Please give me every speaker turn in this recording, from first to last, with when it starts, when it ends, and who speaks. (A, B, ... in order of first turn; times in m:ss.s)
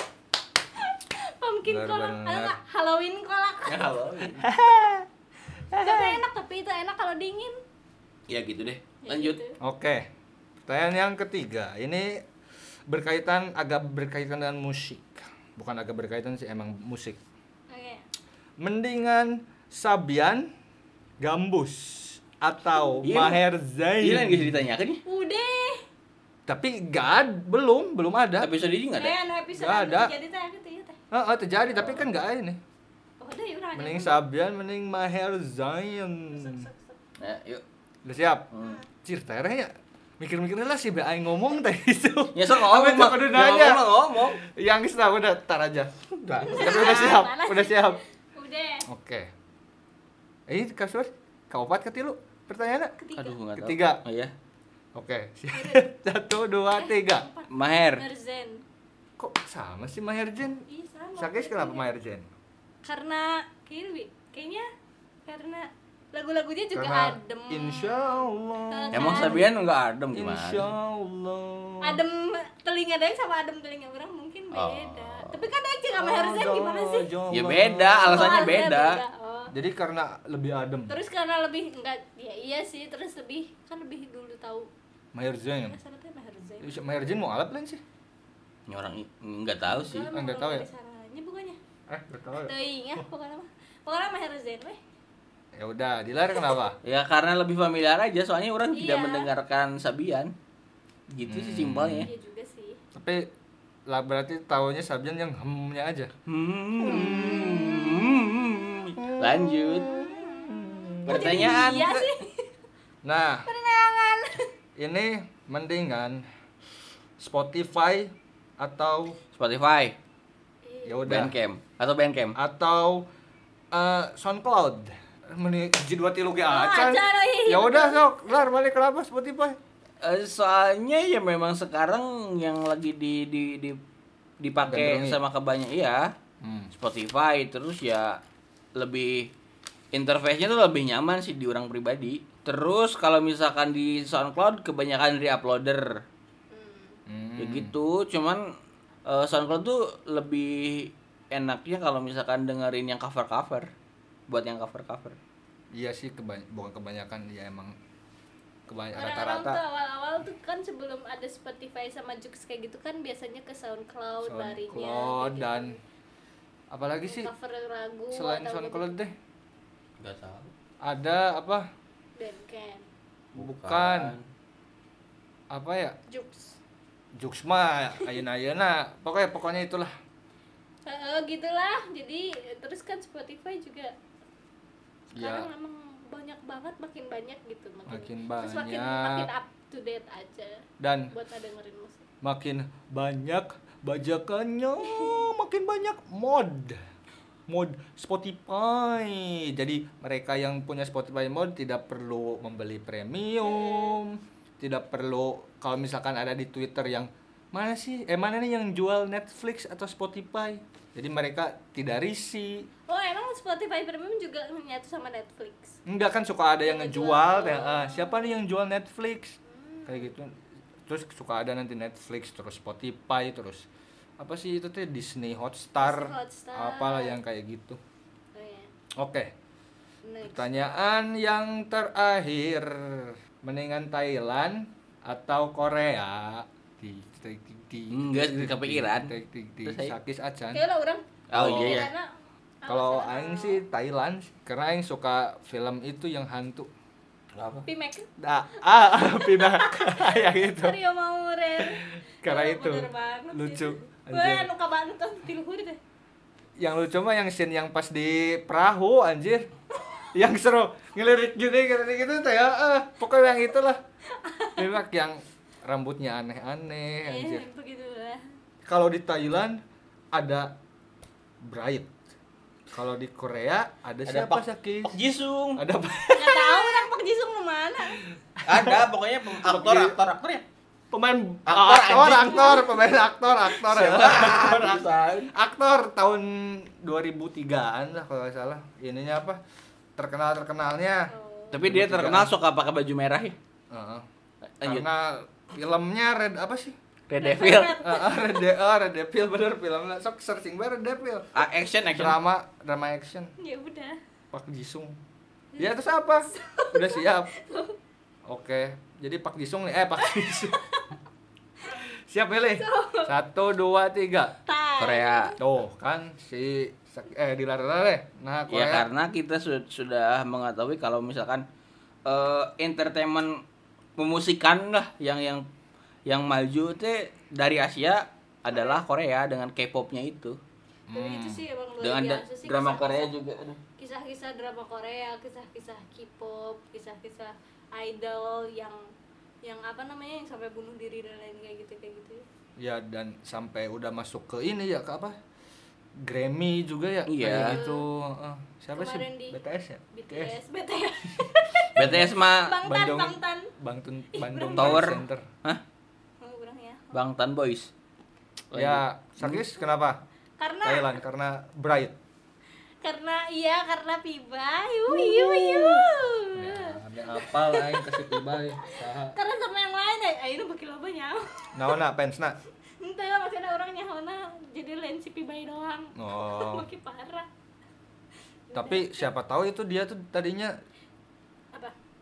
0:00.8-0:03.8 A
0:01.6-0:02.6 B
0:03.7-0:04.4 C
0:04.4-0:05.0 B
0:05.7-0:07.6 A
0:05.7-0:06.2 B
0:08.3-0:09.4 C
0:09.0-0:09.6 A
0:09.6-0:10.0 B
0:10.6-0:12.1 B
0:12.9-0:17.2 B
0:17.7-0:18.0 A
0:18.6-0:20.5 B
0:21.2-0:24.6 B
0:23.0-0:23.4 C
0:24.0-0:25.0 C
0:25.1-0:25.8 A
0:26.5-0:28.5 B
0:28.4-0:29.2 C
0:28.9-0:31.0 A
0:29.5-0:30.1 B
0:31.1-0:32.6 B
0:31.7-0:32.1 C
0:33.2-0:34.2 A
0:33.8-0:36.7 B
0:36.4-0:36.8 A
0:37.2-0:37.6 C
0:38.0-0:38.5 B
0:38.5-0:38.8 C
0:39.0-0:45.9 B
0:42.4-0:44.4 C
0:46.2-0:47.0 C
0:46.4-0:48.8 A
0:46.6-0:48.0 B
0:48.9-0:49.3 B
0:50.5-0:52.9 B
0:53.0-0:53.4 A
0:53.2-0:54.3 C
0:53.6-0:54.0 B
0:54.9-0:57.3 B
0:55.5-0:55.9 A
0:56.7-0:58.6 A
0:57.5-0:58.0 C
0:59.2-1:00.6 B
1:00.7-1:01.9 A
1:01.2-1:02.3 B
1:02.8-1:04.7 A
1:05.2-1:09.4 A
1:06.7-1:09.4 B
1:08.9-1:10.7 C
1:10.1-1:12.0 B
1:11.8-1:17.1 A
1:14.5-1:15.4 C
1:16.0-1:18.5 B
1:17.3-1:19.0 C
1:18.1-1:19.5 A
1:19.5-1:21.0 B
1:20.9-1:24.7 A
1:25.1-1:25.8 B
1:25.6-1:26.8 A
1:26.6-1:27.8 B
1:28.7-1:30.1 C
1:29.7-1:31.6 A
1:30.1-1:30.7 B
1:31.9-1:33.0 B
1:32.4-1:34.8 A
1:35.6-1:36.8 B
1:36.8-1:40.3 C
1:38.7-1:39.3 A
1:41.1-1:42.1 C
1:41.2-1:42.1 B
1:42.0-1:42.8 A
1:42.9-1:43.3 B
1:43.9-1:46.1 B
1:46.3-1:49.9 C
1:46.8-1:48.1 B
1:49.0-1:51.6 B
1:49.8-1:52.4 A
1:51.1-1:52.1 C
1:53.0-1:53.5 B
1:53.4-1:54.4 A
1:54.8-1:56.2 B
1:57.2-1:59.2 B
1:59.3-2:00.0 C
2:00.6-2:01.2 A
2:00.8-2:01.3 B
2:01.0-2:02.4 C
2:02.4-2:03.0 B
2:03.7-2:09.6 B
2:06.5-2:08.0 A
2:10.0-2:13.8 C
2:14.4-2:16.1 C
2:14.7-2:15.2 B
2:16.4-2:16.7 B
2:16.7-2:18.2 C
2:18.7-2:19.3 C
2:19.9-2:26.0 C
2:26.5-2:27.0 A
2:27.1-2:27.7 B
2:27.4-2:28.4 C
2:29.0-2:33.7 C
2:34.3-2:35.2 C
2:35.7-2:37.7 B
2:38.7-2:39.6 B
2:38.9-2:45.8 A
2:44.2-2:45.7 B
2:46.7-2:47.3 B
2:47.0-2:49.0 A
2:48.1-2:49.1 B
2:50.0-2:50.5 C
2:50.8-2:51.6 B
2:52.2-2:52.8 A
2:53.3-2:54.2 C
2:53.4-2:54.2 B
2:55.5-2:56.0 B
2:56.1-2:56.6 A
2:57.2-2:59.9 B
3:00.8-3:03.9 A
3:05.2-3:05.5 B
3:05.2-3:12.0 A
3:07.9-3:09.3 B
3:10.8-3:11.1 B
3:12.2-3:16.8 B
3:14.8-3:15.3 A
3:17.5-3:32.7 B
3:23.4-3:24.0 A
3:32.9-3:35.8 A
3:35.8-3:40.3 B
3:36.6-3:38.4 A
3:39.5-3:40.1 A
3:40.9-3:43.7 B
3:44.2-3:47.8 B
3:45.8-3:47.2 A
3:48.3-3:48.7 A
3:49.0-3:49.3 B
3:50.0-3:50.5 A
3:50.2-4:00.6 B
3:57.9-3:59.1 C
3:59.6-4:00.0 C
4:00.5-4:02.1 A
4:01.3-4:01.9 C
4:01.3-4:01.9 B
4:02.6-4:03.6 A
4:02.7-4:06.7 B
4:07.4-4:07.6 C
4:07.7-4:15.8 A
4:08.2-4:10.8 B
4:11.6-4:14.5 B
4:16.6-4:19.5 B
4:20.2-4:23.8 B
4:24.2-4:24.7 A
4:24.6-4:27.4 B
4:27.1-4:28.2 A
4:28.7-4:29.6 B
4:30.2-4:30.5 B
4:31.4-4:31.9 B
4:32.7-4:35.0 B
4:34.1-4:35.6 C
4:35.6-4:36.9 B
4:36.1-4:38.0 A
4:37.9-4:38.7 B
4:38.4-4:40.4 C
4:39.4-4:40.0 B
4:40.9-4:49.4 B
4:41.4-4:42.7 C
4:42.3-4:42.7 A
4:43.4-4:45.3 C
4:50.0-4:51.1 B
4:51.1-4:51.6 A
4:51.5-4:53.4 C
4:51.6-4:52.3 B
4:53.7-4:54.0 B
4:54.6-4:54.8 C
4:54.6-4:56.8 B
4:57.1-4:57.8 C
4:57.2-4:58.4 A
4:57.8-5:01.3 B
5:01.3-5:02.2 C
5:01.9-5:03.3 B
5:03.4-5:04.0 A
5:04.3-5:05.0 B
5:05.5-5:07.8 A
5:05.6-5:07.3 B
5:08.3-5:10.6 B
5:10.0-5:10.8 A
5:11.7-5:14.3 B
5:12.6-5:13.1 A
5:14.4-5:15.4 A
5:14.8-5:15.4 C
5:15.4-5:18.8 B
5:18.5-5:21.4 C
5:22.1-5:23.4 C
5:24.0-5:25.4 C
5:26.1-5:30.4 C
5:28.5-5:28.8 A
5:30.9-5:31.4 B
5:30.9-5:33.1 A
5:31.8-5:33.6 C
5:33.8-5:38.8 A
5:39.4-5:42.2 A
5:42.6-5:45.2 B
5:46.0-5:50.3 B
5:47.1-5:47.6 C
5:47.3-5:47.8 A
5:48.7-5:49.4 A
5:49.9-5:53.5 A
5:51.8-5:52.6 C
5:51.8-5:52.1 B
5:52.7-5:55.2 B
5:54.1-5:55.0 A
5:54.6-5:55.6 C
5:56.2-5:57.0 A
5:56.9-5:57.7 C
5:58.5-5:59.4 C
5:58.5-6:00.0 B
6:00.4-6:01.0 A
6:00.6-6:02.0 B
6:02.8-6:11.8 A
6:04.9-6:09.2 B
6:11.6-6:12.4 B
6:12.8-6:17.3 A
6:16.0-6:16.7 B
6:18.5-6:19.1 A
6:18.5-6:20.5 B